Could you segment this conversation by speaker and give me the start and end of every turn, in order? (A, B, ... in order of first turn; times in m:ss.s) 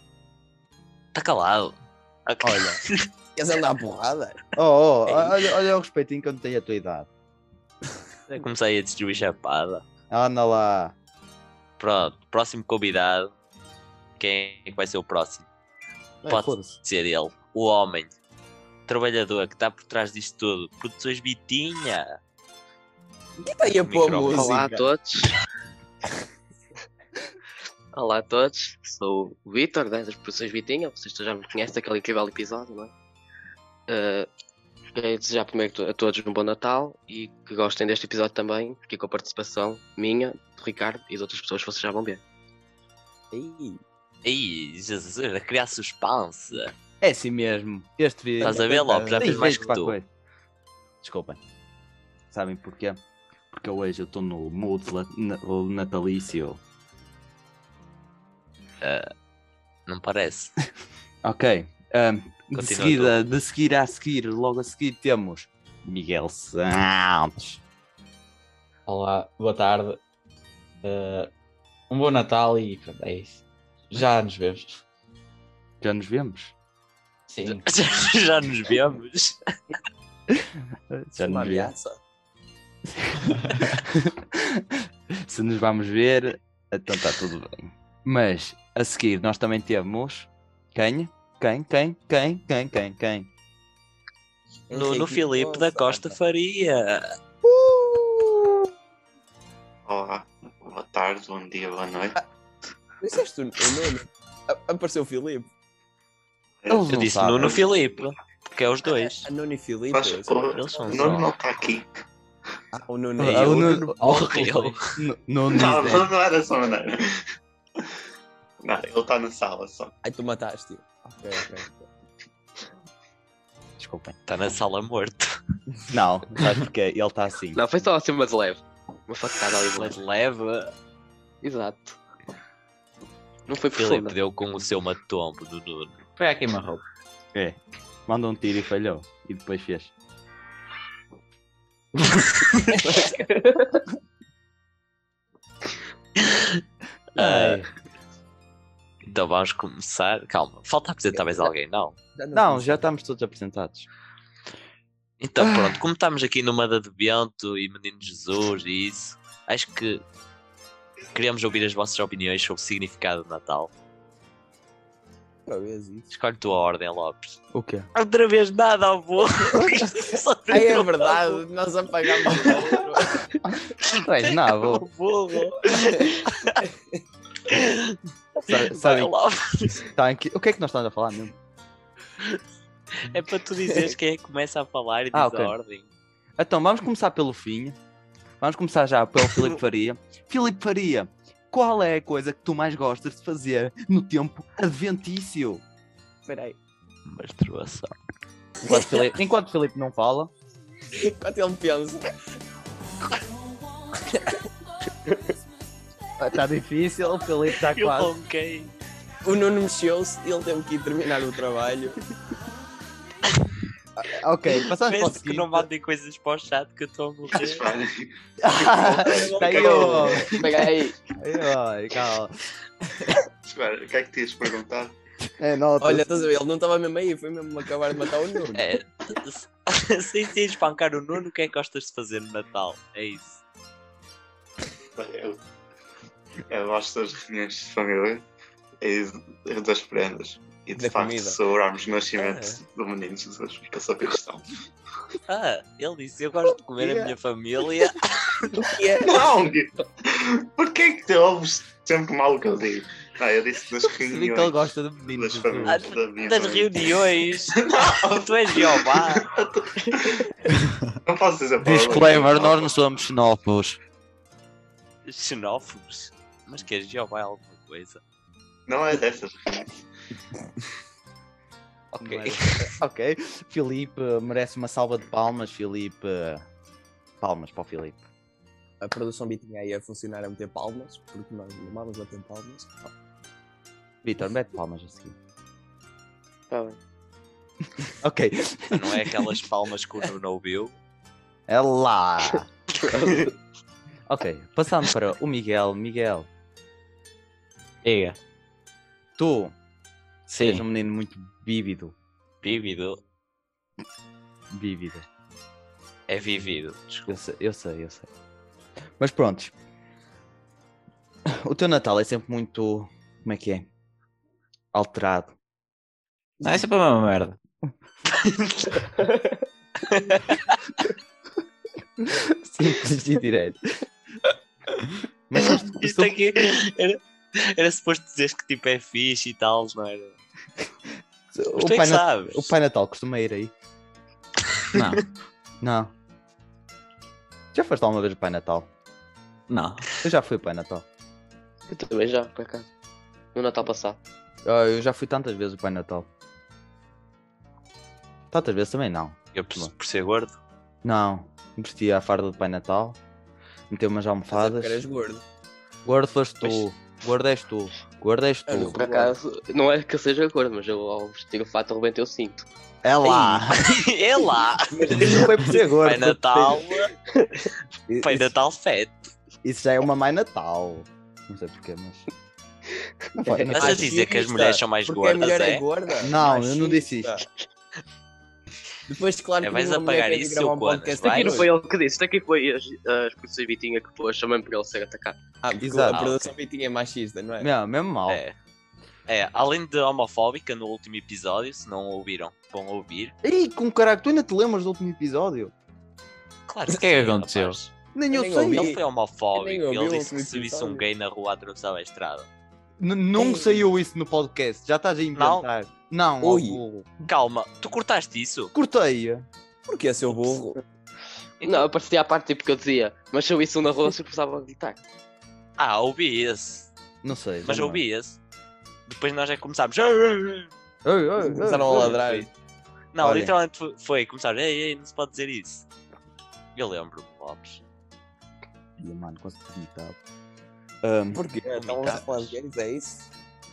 0:01.2-0:03.1 A
0:02.4-0:02.8 B
0:03.4-0:04.4 C
0:04.6-0:07.1 B
0:05.1-0:05.4 C
0:08.3-0:09.8 A
0:10.1-0:11.0 B
0:11.8-0:13.3 A
0:14.2-0:15.5 A
0:16.2-0:16.8 B
0:16.3-0:18.1 A
0:18.9-0:22.2 A
0:23.4-0:24.9 C
0:23.7-0:24.5 A
0:24.3-0:25.4 D
0:27.9-0:32.9 D
0:33.9-0:34.3 D
0:35.0-0:42.2 D
0:43.3-0:43.8 C
0:44.2-0:46.7 A
0:47.0-0:50.1 B
0:48.4-0:49.4 C
0:48.4-0:50.0 A
0:51.0-0:51.4 B
0:52.3-0:56.6 B
0:59.9-1:00.5 A
1:01.2-1:07.6 B
1:02.6-1:03.2 A
1:08.9-1:10.0 E
1:10.8-1:11.3 E
1:11.9-1:14.8 E
1:15.8-1:16.5 B
1:17.3-1:17.6 E
1:17.6-1:19.4 A
1:20.4-1:21.7 B
1:21.2-1:22.0 C
1:23.0-1:24.6 B
1:23.3-1:23.6 E
1:25.2-1:33.3 B
1:34.7-1:36.2 C
1:34.7-1:37.0 A
1:37.4-1:38.6 B
1:39.9-1:42.2 F
1:43.0-1:45.5 C
1:46.7-1:47.6 B
1:46.9-1:49.3 A
1:47.4-1:47.7 F
1:49.1-1:51.2 C
1:49.9-1:52.0 F
1:50.5-1:51.3 A
1:52.7-1:53.8 C
1:53.2-1:54.3 B
1:53.2-1:55.0 A
1:53.9-1:54.8 E
1:55.0-1:56.1 B
1:55.5-1:57.2 F
1:58.6-1:59.9 F
2:00.0-2:01.9 C
2:03.8-2:04.2 B
2:04.3-2:05.4 A
2:05.9-2:07.6 B
2:07.5-2:10.0 D
2:09.7-2:10.8 A
2:11.4-2:12.0 D
2:13.5-2:14.2 D
2:13.7-2:16.0 A
2:16.2-2:16.8 E
2:17.3-2:19.9 B
2:22.8-2:23.8 D
2:27.2-2:27.6 A
2:27.2-2:27.7 B
2:29.0-2:32.0 A
2:32.2-2:32.8 C
2:32.3-2:33.9 B
2:35.2-2:40.0 A
2:35.4-2:35.8 B
2:41.1-2:43.7 A
2:45.5-2:46.1 C
2:46.1-2:47.4 A
2:47.5-2:47.9 B
2:48.0-2:51.4 A
2:50.5-2:53.3 C
2:52.3-2:52.6 A
2:53.4-2:54.8 B
2:54.5-2:56.6 A
2:57.5-2:59.8 A
2:58.4-2:59.1 B
2:59.9-3:01.4 B
3:03.0-3:05.9 A
3:05.1-3:05.6 B
3:06.4-3:07.8 B
3:08.4-3:15.6 B
3:16.2-3:16.6 C
3:17.1-3:18.0 A
3:18.7-3:20.3 B
3:21.0-3:22.1 C
3:26.2-3:28.1 B
3:27.7-3:28.7 A
3:29.2-3:32.0 C
3:34.0-3:35.7 B
3:34.9-3:37.6 A
3:37.3-3:40.3 F
3:38.4-3:42.4 B
3:38.9-3:40.2 C
3:39.5-3:41.0 D
3:43.4-3:44.9 F
3:45.3-3:46.1 B
3:45.8-3:48.6 C
3:48.5-3:53.4 A
3:55.0-3:55.4 F
3:56.5-3:58.2 F
3:58.8-4:04.6 F
4:00.8-4:01.4 C
4:02.2-4:02.6 A
4:05.3-4:08.5 A
4:06.8-4:07.1 B
4:08.5-4:09.3 C
4:09.0-4:20.3 F
4:14.1-4:15.8 B
4:15.7-4:17.5 A
4:18.2-4:19.3 A
4:21.0-4:22.7 F
4:21.6-4:23.8 B
4:25.1-4:28.0 A
4:28.7-4:29.8 F
4:32.0-4:32.7 A
4:32.0-4:36.4 B
4:37.2-4:38.1 B
4:38.8-4:42.9 C
4:44.0-4:45.2 B
4:46.5-4:46.8 D
4:48.0-4:48.8 B
4:48.7-4:50.8 A
4:51.5-4:52.5 B
4:52.8-4:53.4 D
4:54.1-4:56.3 B
4:57.8-4:58.2 E
4:59.2-4:59.6 B
5:00.3-5:00.6 E
5:00.4-5:02.0 B
5:02.4-5:03.0 A
5:04.5-5:05.1 B
5:06.1-5:07.1 A
5:07.1-5:08.1 B
5:09.0-5:09.5 B
5:11.4-5:13.7 B
5:14.7-5:15.4 B
5:16.4-5:17.4 E
5:18.2-5:18.9 A
5:19.1-5:19.4 D
5:19.9-5:20.6 A
5:22.0-5:23.6 B
5:25.3-5:26.2 B
5:25.8-5:30.2 A
5:31.3-5:33.5 B
5:31.6-5:32.5 A
5:34.8-5:35.0 E
5:35.6-5:35.9 B
5:37.5-5:38.7 B
5:39.5-5:39.9 E
5:40.0-5:40.8 B
5:41.7-5:42.7 D
5:43.4-5:44.0 D
5:44.4-5:46.1 B
5:48.3-5:49.7 B
5:49.4-5:50.4 A
5:50.8-5:53.0 B
5:53.7-5:54.8 B
5:54.3-5:55.2 C
5:55.8-5:58.8 B
5:58.5-5:59.2 C
5:58.8-6:02.5 D
6:02.8-6:03.8 B
6:03.0-6:06.9 A
6:04.7-6:06.6 B
6:07.2-6:07.4 D
6:07.9-6:08.2 B
6:08.0-6:09.1 A
6:09.4-6:12.1 B
6:13.2-6:13.9 B
6:13.3-6:13.5 D
6:13.5-6:17.2 C
6:13.5-6:15.6 A
6:16.0-6:17.1 B
6:18.9-6:21.5 C
6:19.4-6:21.5 A
6:21.1-6:25.2 D
6:25.4-6:27.5 C
6:25.6-6:26.0 B
6:25.9-6:26.3 A
6:27.4-6:28.2 B
6:28.1-6:28.4 A
6:29.1-6:33.1 A
6:33.2-6:35.5 B
6:36.5-6:37.7 A
6:36.7-6:37.6 E
6:38.0-6:38.7 B
6:38.1-6:40.9 C
6:38.5-6:42.3 A
6:42.8-6:47.0 B
6:43.2-6:43.7 C
6:45.2-6:45.5 A
6:46.2-6:46.6 C
6:47.1-6:48.5 A
6:48.5-6:49.3 B
6:49.7-6:50.6 C
6:50.1-6:50.4 A
6:51.4-6:51.7 A
6:51.4-6:54.8 D
6:55.6-6:56.7 A
6:57.0-6:57.8 B
6:57.4-6:58.2 A
6:58.9-7:00.5 A
7:00.8-7:02.0 B
7:01.2-7:02.3 C
7:01.6-7:02.3 A
7:02.9-7:05.7 A
7:03.0-7:03.3 B
7:06.6-7:07.6 A
7:08.8-7:10.0 B
7:10.8-7:11.2 B
7:11.1-7:13.1 C
7:11.5-7:12.4 A